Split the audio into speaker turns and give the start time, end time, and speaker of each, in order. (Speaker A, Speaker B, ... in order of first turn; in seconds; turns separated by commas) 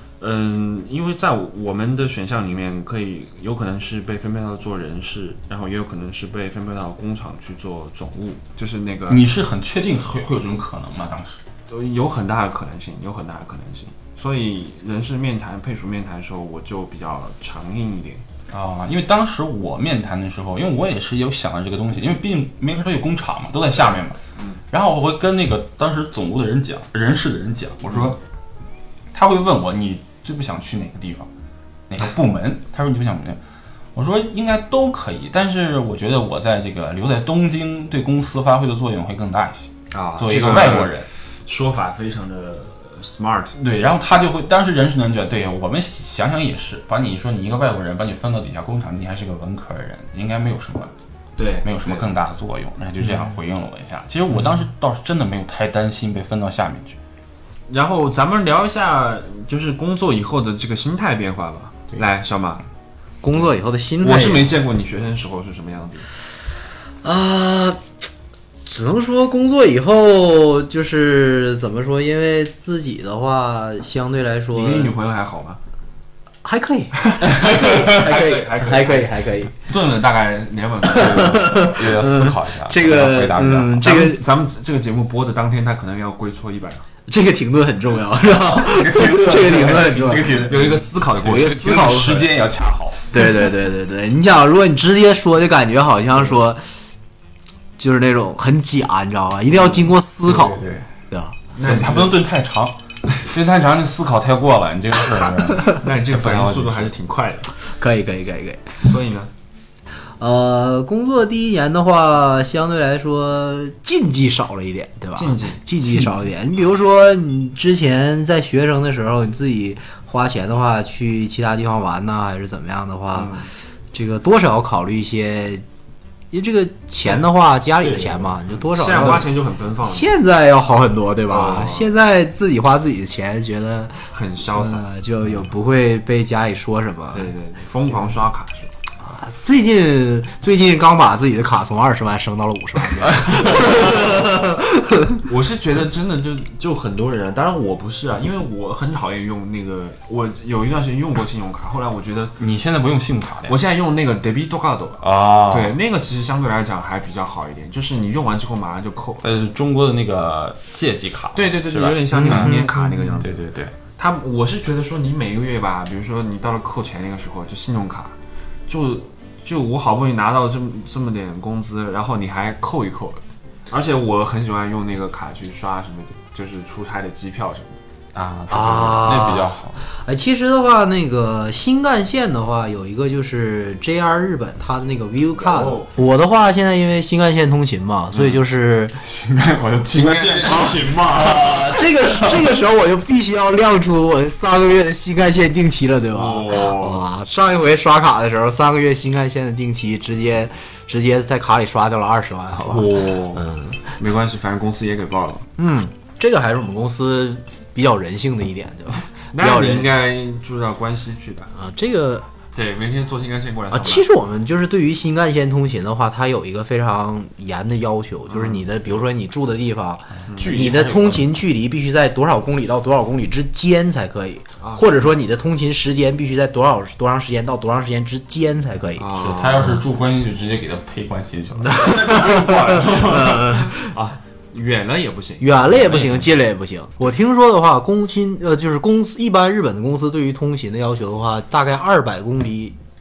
Speaker A: 0.2-9.2, Speaker B: 9.1-11.4, Speaker A: 11.7-18.2, Speaker B: 18.5-28.2, Speaker A: 24.4-24.6, Speaker A: 27.9-28.1, Speaker B: 29.1-31.3, Speaker B: 31.9-33.4, Speaker B: 34.0-41.1, Speaker A: 39.9-43.6, Speaker B: 43.6-50.9, Speaker A: 51.4-52.1, Speaker B: 51.6-57.0, Speaker A: 57.7-62.6, Speaker C: 63.2-64.5, Speaker A: 64.0-66.1, Speaker C: 67.0-67.8, Speaker C: 68.7-74.9, Speaker A: 74.5-75.6, Speaker C: 76.4-79.5, Speaker A: 77.0-81.6, Speaker C: 80.9-84.2, Speaker B: 81.0-84.1, Speaker A: 83.8-86.9, Speaker C: 87.1-90.6, Speaker B: 88.5-93.1, Speaker A: 90.3-92.0, Speaker C: 91.2-92.3, Speaker C: 93.1-96.9, Speaker C: 97.8-101.4, Speaker A: 99.5-99.9, Speaker B: 100.2-100.9, Speaker A: 101.5-102.2, Speaker B: 101.6-106.9, Speaker A: 105.7-107.5, Speaker C: 107.5-108.9, Speaker A: 108.8-109.3, Speaker C: 110.2-125.7, Speaker A: 115.2-115.7, Speaker A: 123.1-123.5, Speaker C: 126.3-129.3, Speaker B: 127.8-128.4, Speaker A: 128.6-130.1, Speaker C: 129.8-137.3, Speaker A: 131.3-131.9, Speaker A: 134.1-134.9, Speaker A: 137.1-138.7, Speaker C: 139.0-145.2, Speaker A: 145.3-152.4, Speaker B: 152.4-153.6, Speaker A: 153.5-159.2, Speaker B: 155.0-155.7, Speaker B: 159.2-162.7, Speaker A: 161.3-168.2, Speaker C: 162.1-163.1, Speaker B: 163.2-163.7, Speaker A: 168.7-177.8, Speaker B: 178.1-179.8, Speaker C: 178.5-189.0, Speaker A: 185.3-186.0, Speaker A: 188.1-188.4, Speaker B: 189.0-192.5, Speaker A: 189.9-191.5, Speaker C: 190.5-203.9, Speaker A: 196.1-197.1, Speaker A: 202.6-205.5, Speaker C: 205.6-209.9, Speaker A: 209.3-211.6, Speaker C: 211.6-212.3, Speaker A: 212.5-214.1, Speaker C: 213.7-229.1, Speaker A: 218.3-218.6, Speaker A: 220.3-220.8, Speaker B: 220.3-221.3, Speaker A: 224.6-225.1, Speaker A: 229.0-229.8, Speaker B: 229.2-233.5, Speaker C: 231.7-233.7, Speaker A: 231.8-236.1, Speaker C: 235.4-242.8